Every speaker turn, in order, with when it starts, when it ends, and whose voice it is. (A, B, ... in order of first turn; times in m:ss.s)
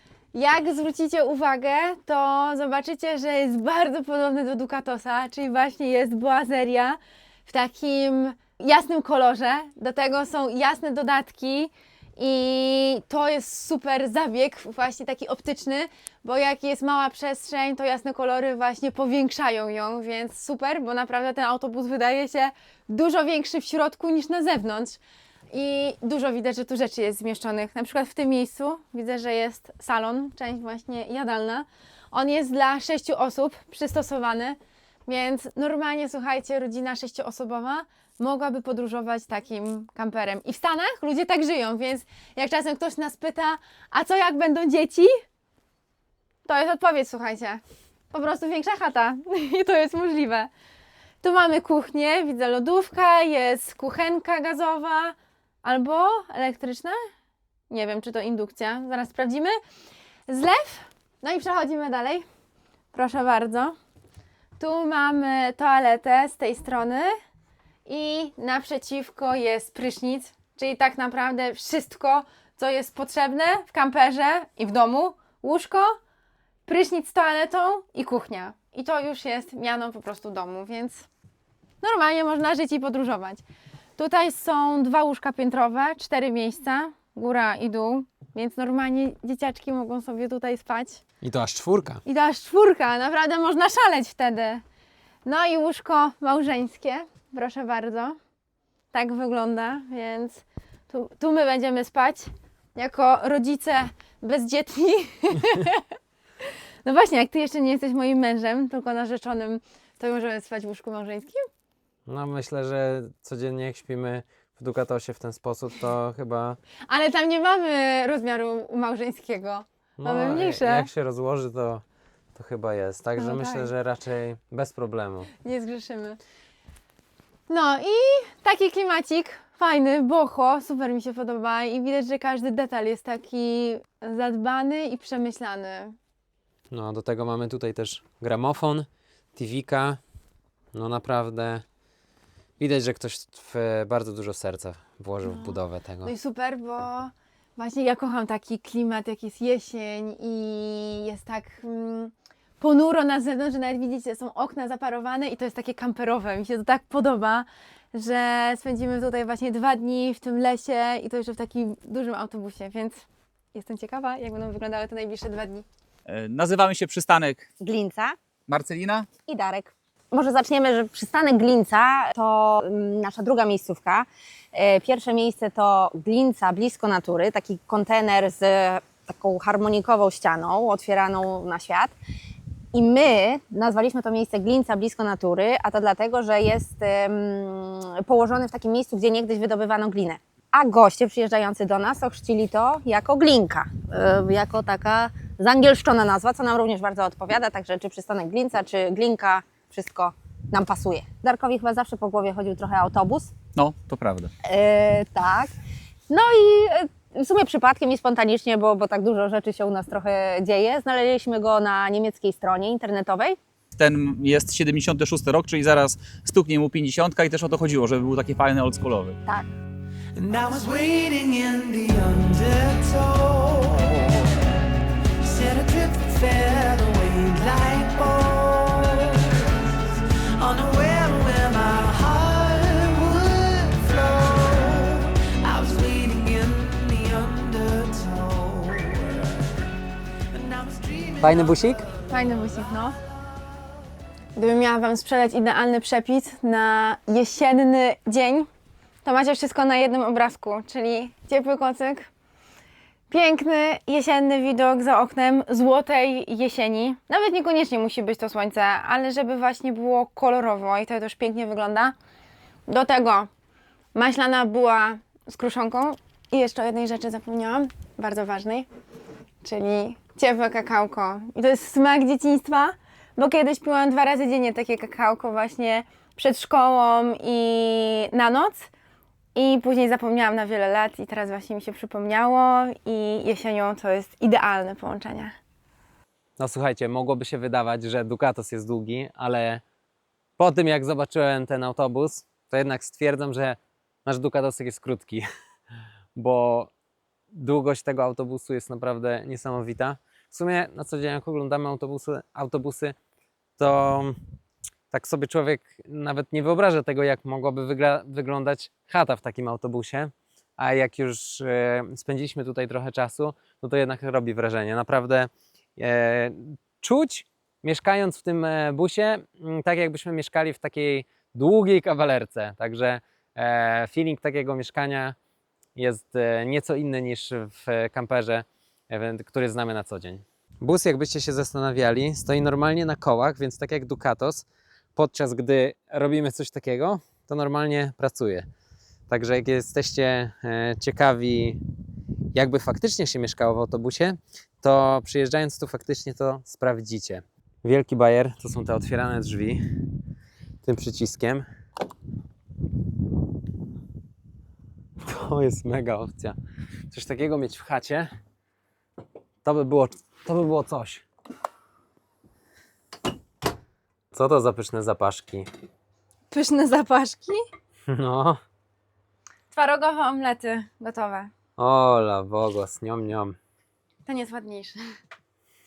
0:00.3-0:25.0 A
0:25.5-0:45.1 A
0:46.4-0:50.5 A
0:51.2-0:57.0 A
0:57.7-0:59.6 A
1:00.3-1:02.3 A
1:02.9-1:03.8 A
1:04.6-1:07.1 A
1:07.9-1:16.0 A
1:16.7-1:21.1 A
1:21.8-1:23.4 A
1:24.0-1:31.0 A
1:31.2-1:32.0 B
1:32.0-1:34.6 A
1:35.2-1:38.2 A
1:38.9-1:45.8 A
1:46.4-1:51.5 A
1:52.1-1:56.6 B
1:56.9-2:00.9 A
2:00.0-2:01.8 B
2:02.4-2:05.3 B
2:03.2-2:03.7 A
2:05.4-2:06.2 A
2:07.5-2:16.0 A
2:16.7-2:20.0 B
2:20.7-2:21.6 B
2:22.6-2:26.1 B
2:25.2-2:45.7 A
2:46.1-2:47.5 C
2:47.6-2:48.2 D
2:48.5-2:49.1 C
2:49.3-3:01.9 D
3:02.7-3:23.3 D
3:23.6-3:24.3 C
3:24.4-3:25.5 D
3:26.1-3:33.4 D
3:33.8-3:39.2 C
3:40.2-3:44.4 E
3:45.2-3:49.8 E
3:50.4-3:59.3 E
4:00.3-4:02.8 E
4:01.2-4:01.8 B
4:02.1-4:03.0 A
4:04.4-4:08.5 A
4:09.0-4:12.1 A
4:13.1-4:22.0 A
4:22.7-4:23.3 A
4:23.9-4:28.7 A
4:29.4-4:38.7 A
4:39.4-4:45.3 A
4:46.4-4:49.6 B
4:50.4-4:55.2 B
4:56.2-4:56.7 B
4:57.3-5:03.0 B
5:03.6-5:04.2 B
5:04.9-5:25.2 B
5:25.8-5:38.5 B
5:39.1-5:41.6 B
5:42.3-5:49.6 B
5:50.6-5:51.4 B
5:55.0-5:56.4 B
5:56.9-5:58.1 B
5:59.4-6:01.0 B
6:04.1-6:05.5 B
6:06.3-6:07.4 A
6:07.9-6:08.4 B
6:09.5-6:11.3 A
6:11.6-6:13.4 B
6:14.1-6:14.8 A